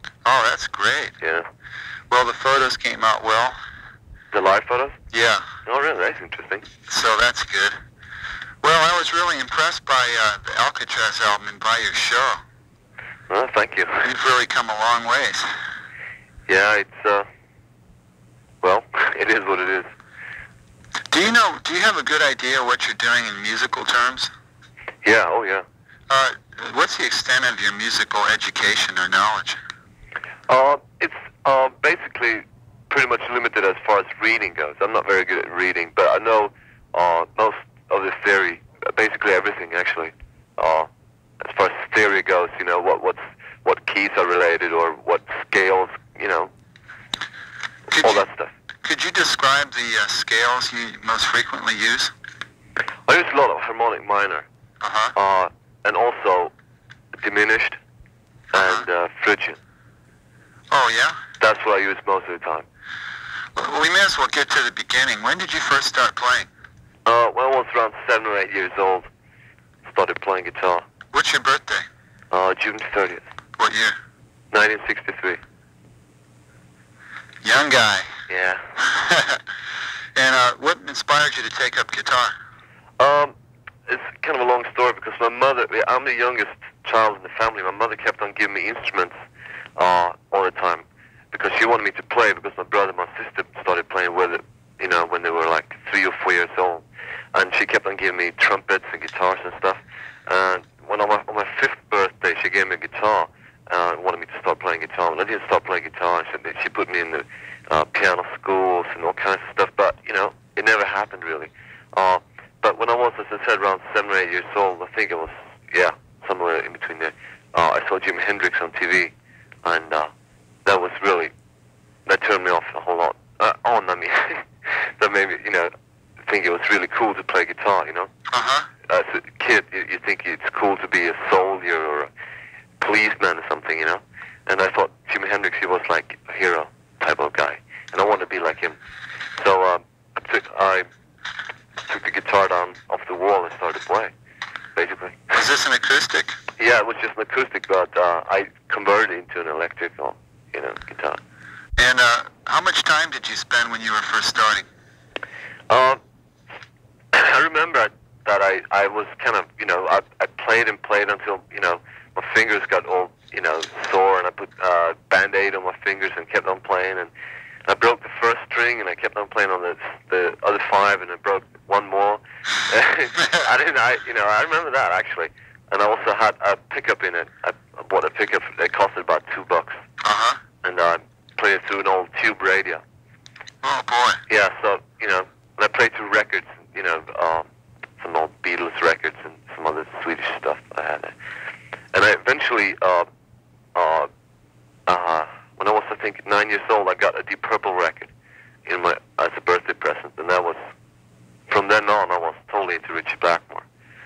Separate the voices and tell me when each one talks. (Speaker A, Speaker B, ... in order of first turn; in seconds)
Speaker A: 0.2-1.1, 2.1-3.6, 5.1-5.5, 6.9-7.8, 8.6-12.4, 14.0-15.5, 21.1-24.3, 26.1-29.6, 47.9-48.2, 48.8-52.1, 54.8-55.1, 58.5-58.8, 60.7-61.2, 63.5-66.5, 71.1-71.8, 73.6-74.0, 77.4-78.1, 78.8-79.4, 80.2-82.3, 128.3-128.7, 145.3-146.4, 151.8-154.7, 180.0-180.4, 183.6-184.2
Speaker B: 1.2-1.5, 4.3-5.0, 5.6-6.7, 13.3-14.1, 16.5-17.2, 18.6-19.9, 25.0-25.6, 30.5-40.9, 41.4-46.5, 48.0-48.5, 53.1-54.5, 55.1-56.5, 57.2-57.8, 58.5-59.6, 61.4-62.6, 67.0-69.1, 69.8-70.8, 72.3-73.2, 74.5-75.4, 78.3-78.6, 83.0-83.3, 83.9-89.1, 89.8-119.1, 119.6-120.1, 120.7-121.3, 122.0-125.7, 126.3-128.1, 128.9-132.1, 132.8-138.8, 139.4-140.9, 141.9-144.1, 144.8-145.4, 146.6-151.2, 155.7-156.0, 157.1-167.1, 167.7-179.8, 180.6-182.8, 184.3-187.5, 188.0-191.1, 191.9-193.1, 193.7-194.1, 194.9-198.1, 198.7-200.6, 201.5-203.7